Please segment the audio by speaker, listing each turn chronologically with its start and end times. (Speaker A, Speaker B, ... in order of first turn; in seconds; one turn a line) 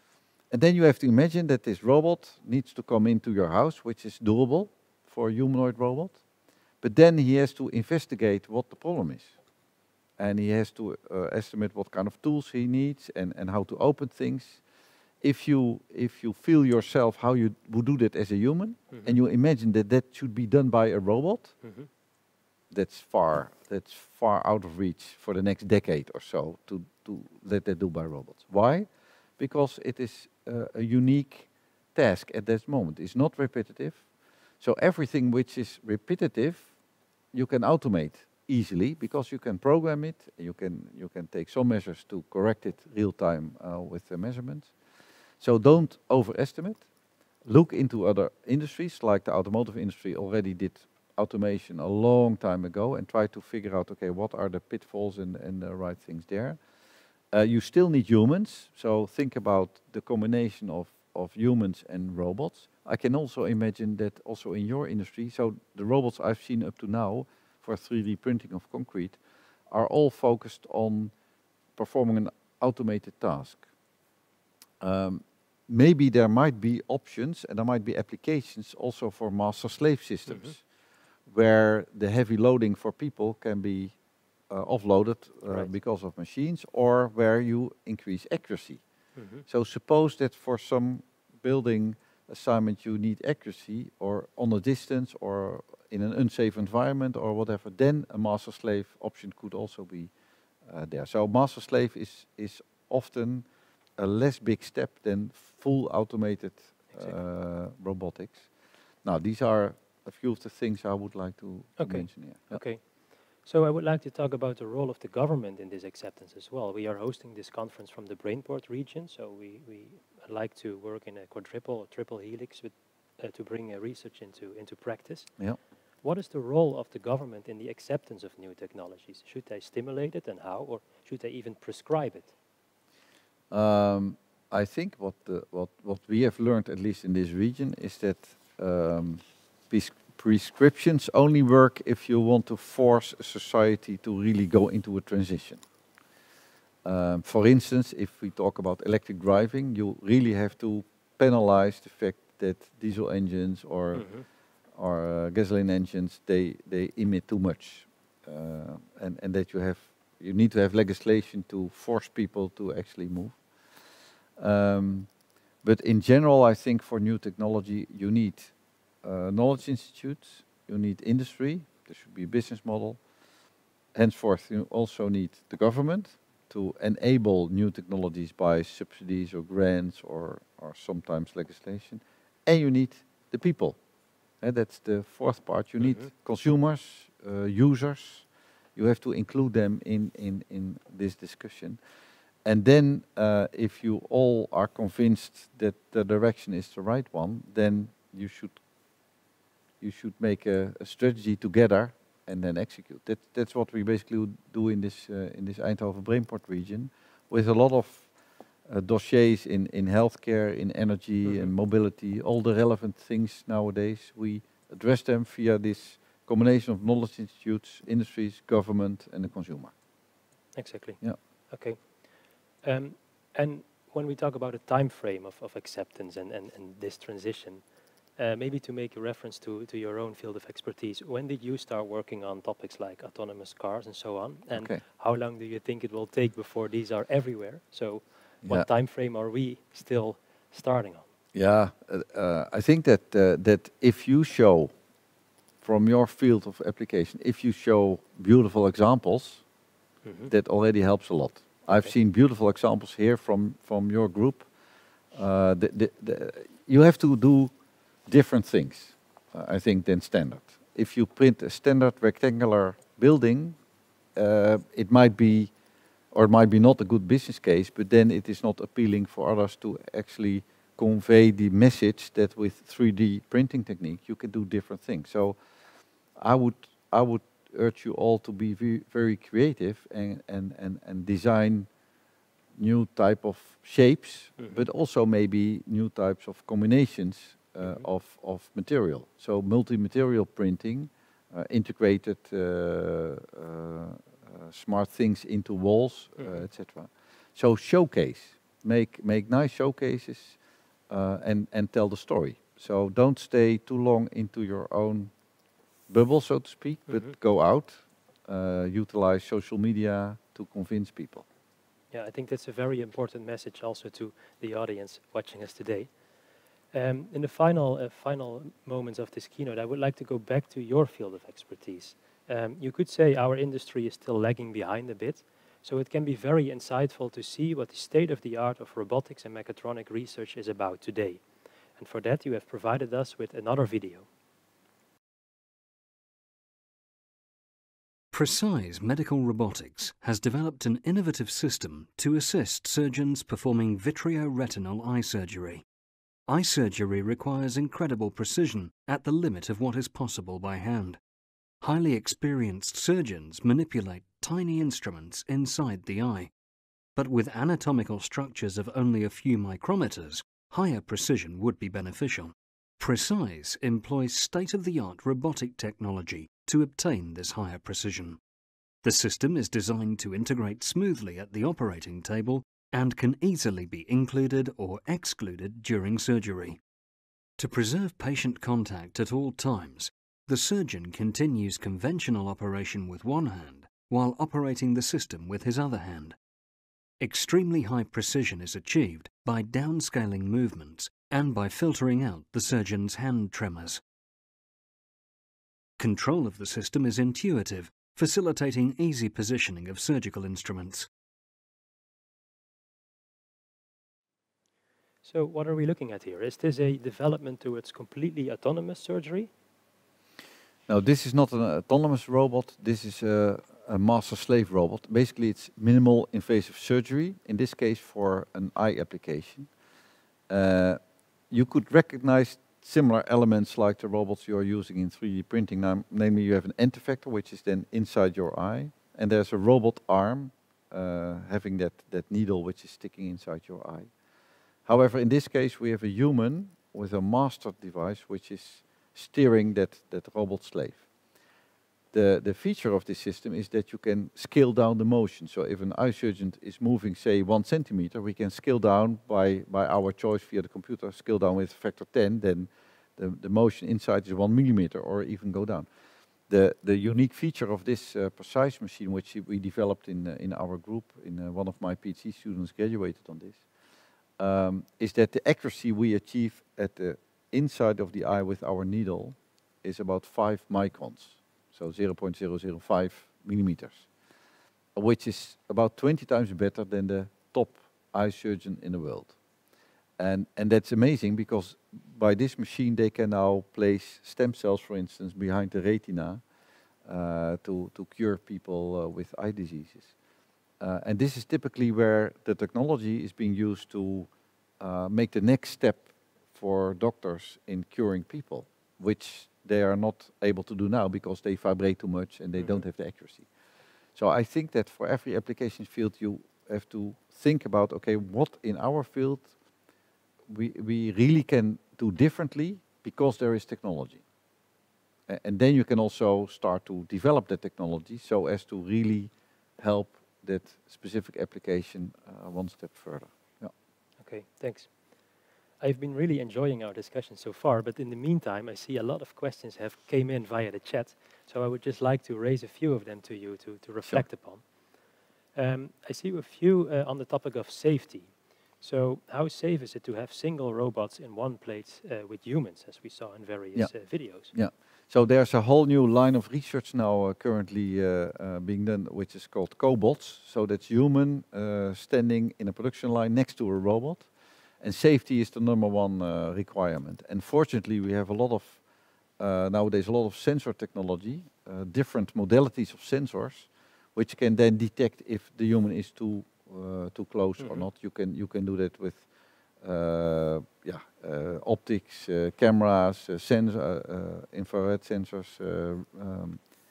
Speaker A: 0.5-6.2
Speaker A: 6.8-9.3
Speaker A: 10.2-14.6
Speaker A: 15.2-21.6
Speaker B: 21.6-21.9
Speaker A: 22.7-34.1
Speaker A: 34.6-36.7
Speaker A: 37.3-44.7
Speaker A: 45.4-46.8
Speaker A: 47.4-56.6
Speaker A: 57.3-71.1
Speaker A: 71.8-73.6
Speaker A: 74.8-80.6
Speaker B: 80.3-80.5
Speaker A: 81.2-84.0
Speaker A: 84.5-88.8
Speaker B: 89.1-89.4
Speaker A: 89.5-100.1
Speaker A: 100.6-103.5
Speaker A: 104.0-108.5
Speaker A: 109.0-112.6
Speaker B: 111.8-112.8
Speaker B: 113.4-125.3
Speaker B: 126.0-132.3
Speaker A: 133.5-145.6
Speaker A: 146.8-154.2
Speaker B: 153.9-154.2
Speaker A: 154.7-163.4
Speaker A: 164.4-165.1
Speaker A: 165.6-173.0
Speaker A: 173.9-183.8
Speaker A: 184.4-191.8
Speaker B: 185.8-186.1
Speaker A: 192.4-198.6
Speaker A: 199.8-208.1
Speaker A: 208.7-219.7
Speaker B: 220.5-222.0
Speaker B: 222.6-227.6
Speaker B: 228.2-241.1
Speaker A: 234.5-234.8
Speaker A: 241.3-244.7
Speaker A: 245.6-249.4
Speaker B: 250.0-250.3
Speaker A: 250.3-254.5
Speaker A: 255.1-257.5
Speaker A: 258.1-263.6
Speaker A: 264.1-265.5
Speaker A: 266.1-275.4
Speaker A: 276.1-281.7
Speaker A: 282.6-305.1
Speaker B: 284.4-284.6
Speaker A: 305.9-311.2
Speaker B: 311.9-315.9
Speaker B: 316.7-331.2
Speaker B: 331.8-334.1
Speaker C: 338.1-345.6
Speaker C: 346.3-351.0
Speaker C: 351.6-356.3
Speaker C: 356.9-368.2
Speaker C: 368.8-376.6
Speaker C: 377.4-386.1
Speaker C: 387.0-393.8
Speaker C: 395.8-400.9
Speaker B: 405.0-409.3
Speaker A: 410.7-419.5
Speaker A: 420.3-433.9
Speaker A: 434.6-440.9
Speaker A: 441.9-455.7
Speaker A: 456.3-463.4
Speaker A: 464.2-473.9
Speaker A: 474.7-479.1
Speaker A: 480.0-486.2
Speaker A: 486.8-489.9
Speaker A: 490.6-503.3
Speaker A: 503.9-509.3
Speaker A: 510.3-514.0
Speaker A: 515.1-523.5
Speaker B: 524.0-524.7
Speaker B: 525.6-534.4
Speaker B: 535.3-544.3
Speaker A: 543.5-558.6
Speaker A: 559.2-569.1
Speaker B: 567.4-567.6
Speaker A: 569.6-576.4